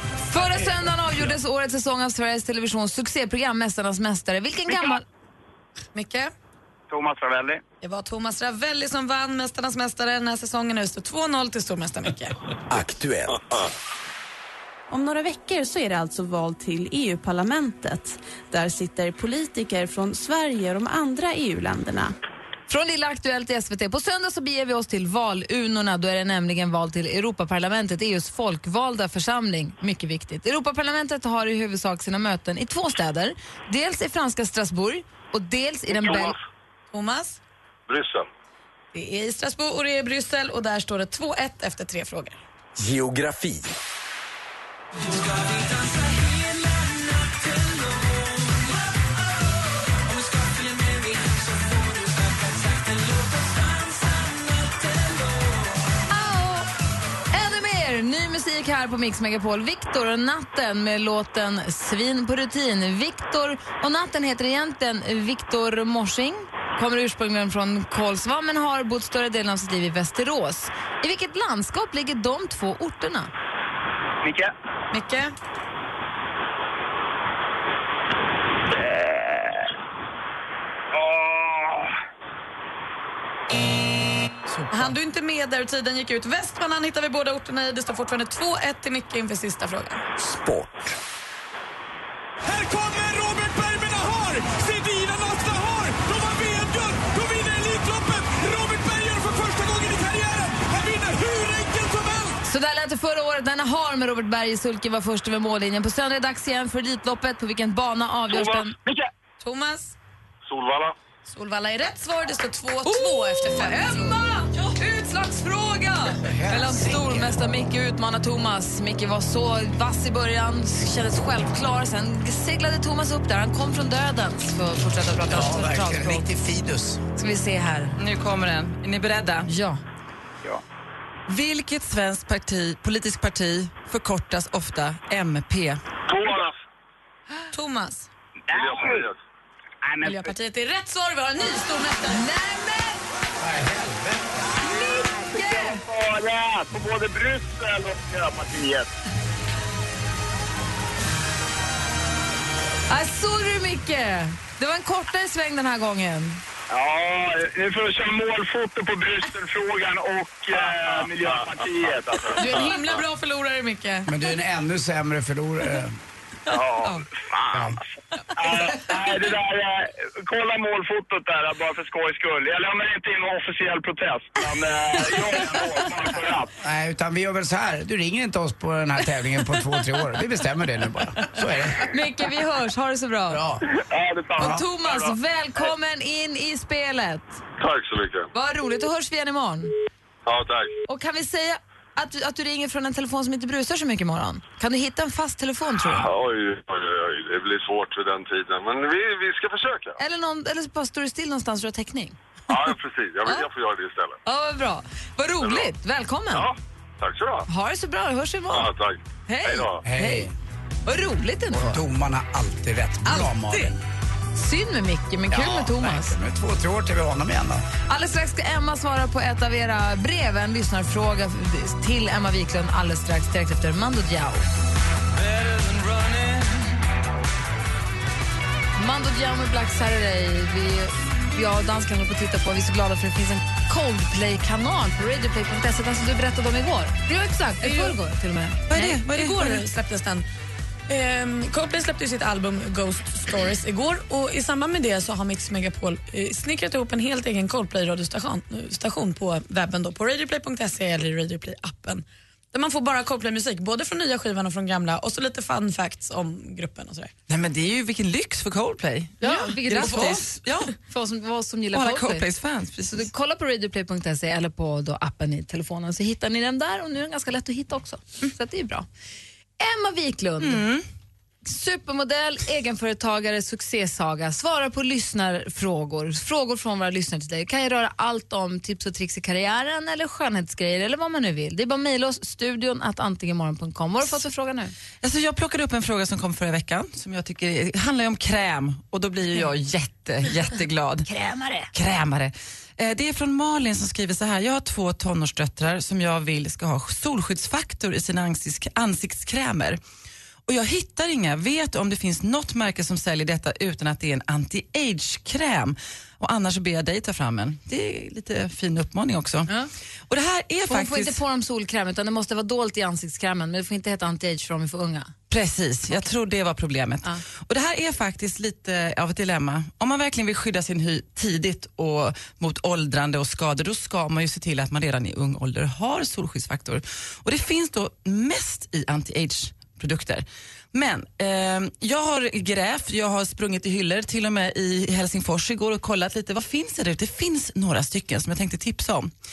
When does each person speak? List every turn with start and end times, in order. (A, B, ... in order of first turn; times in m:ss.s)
0:00.2-0:05.0 A
0:05.9-0:06.3 B
0:06.9-0:07.6 C
0:07.8-0:12.4 B
0:12.7-0:13.4 D
0:14.9-0:22.1 E
0:22.7-0:36.4 A
0:36.0-0:36.4 F
0:36.9-0:37.4 B
0:37.9-0:38.3 F
0:38.9-0:42.4 B
0:42.8-0:43.7 D
0:56.1-0:56.7 A
0:57.3-1:13.3 A
1:14.2-1:14.5 C
1:14.9-1:15.3 B
1:18.7-1:19.7 C
1:20.9-1:21.9 C
1:24.7-1:30.0 B
1:30.2-1:30.9 D
1:32.4-1:42.4 G
1:42.4-1:48.7 A
1:48.8-1:49.1 C
1:49.4-1:50.0 B
1:50.4-1:51.0 F
1:51.2-1:54.2 B
1:52.8-2:06.3 A
1:56.2-1:57.4 H
2:05.3-2:07.0 H
2:07.2-2:08.0 A
2:08.0-2:09.5 I
2:09.5-2:09.8 A
2:11.3-2:15.8 I
2:16.1-2:16.5 F
2:16.1-2:16.5 C
2:17.5-2:18.1 B
2:18.5-2:19.1 C
2:18.5-2:19.2 F
2:19.8-2:20.3 C
2:20.0-2:22.2 B
2:22.1-2:23.0 A
2:23.4-2:24.5 H
2:24.6-2:25.8 A
2:24.8-2:28.9 C
2:32.9-2:36.4 A
2:36.7-2:42.7 C
2:40.6-2:43.0 F
2:42.3-2:44.1 B
2:44.1-2:46.0 H
2:46.5-2:47.8 C
2:47.5-2:47.8 H
2:48.4-2:56.5 C
2:56.6-3:01.9 H
3:01.8-3:03.4 A
3:03.3-3:03.6 H
3:03.7-3:05.2 C
3:04.4-3:04.6 H
3:04.4-3:07.4 A
3:07.6-3:08.3 F
3:08.3-3:09.7 A
3:10.2-3:10.8 F
3:10.9-3:16.1 A
3:15.9-3:20.0 F
3:20.0-3:22.2 A
3:22.5-3:24.2 F
3:24.2-3:26.5 A
3:25.4-3:25.7 F
3:26.3-3:27.5 F
3:27.5-3:28.7 A
3:28.5-3:29.8 F
3:29.3-3:30.3 A
3:29.8-3:30.3 H
3:30.8-3:31.8 A
3:31.5-3:33.8 H
3:34.3-3:36.2 A
3:35.3-3:37.6 H
3:37.9-3:44.4 A
3:48.8-3:59.0 A
3:57.6-3:58.0 B
3:58.7-3:59.6 I
3:59.0-4:00.2 B
4:00.9-4:17.1 B
4:17.3-4:20.7 I
4:19.2-4:20.3 A
4:19.2-4:20.2 B
4:20.8-4:22.3 A
4:21.7-4:23.1 I
4:22.9-4:28.8 A
4:29.6-4:30.6 A
4:30.4-4:30.8 I
4:31.4-4:44.7 A
4:45.0-4:51.1 I
4:51.0-4:51.7 A
4:51.7-4:59.8 I
5:00.5-5:09.5 I
5:10.1-5:11.2 I
5:10.7-5:15.1 A
5:15.3-5:39.1 I